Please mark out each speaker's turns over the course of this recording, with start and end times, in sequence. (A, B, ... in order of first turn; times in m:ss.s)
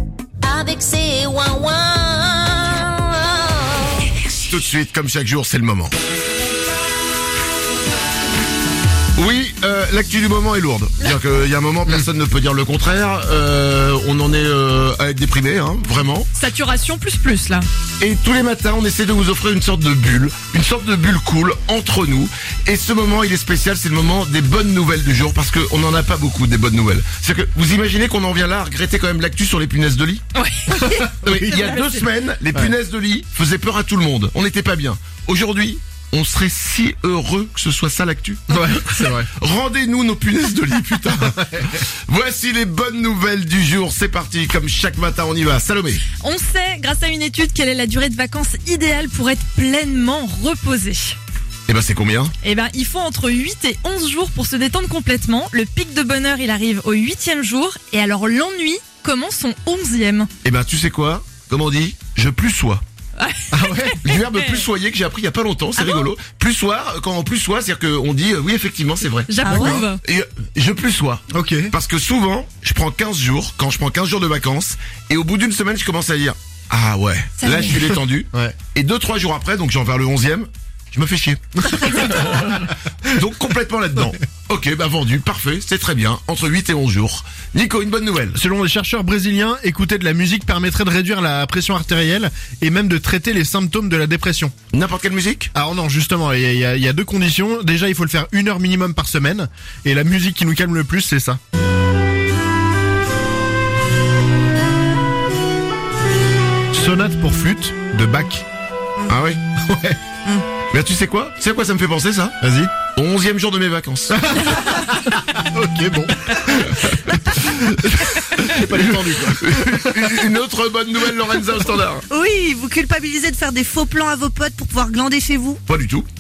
0:00.4-0:04.3 A
0:04.4-0:06.0 B
0:09.2-0:16.3 B
0:16.3-0:17.6 C
0:18.0-0:30.2 B
0:30.3-0:31.9 C
0:30.7-0:31.8 D
0:31.2-0:46.0 B
0:38.5-0:39.3 D
0:46.2-0:51.2 C
0:51.7-0:52.3 B
0:52.4-1:00.3 C
1:00.4-1:02.8 B
1:03.2-1:04.6 C
1:03.5-1:04.0 D
1:04.0-1:09.4 B
1:05.8-1:06.0 E
1:09.3-1:10.0 C
1:09.4-1:09.9 D
1:09.5-1:09.8 E
1:10.0-1:21.5 B
1:11.3-1:11.7 D
1:17.4-1:18.0 C
1:23.0-1:28.4 B
1:28.3-1:34.5 D
1:34.7-1:35.5 B
1:35.5-1:41.4 D
1:46.7-1:48.4 D
1:49.1-1:49.4 B
1:49.6-1:50.0 D
1:50.7-1:54.2 B
1:52.4-1:52.7 D
1:54.1-2:00.2 D
1:58.3-2:02.1 B
2:02.1-2:05.6 E
2:05.6-2:06.1 B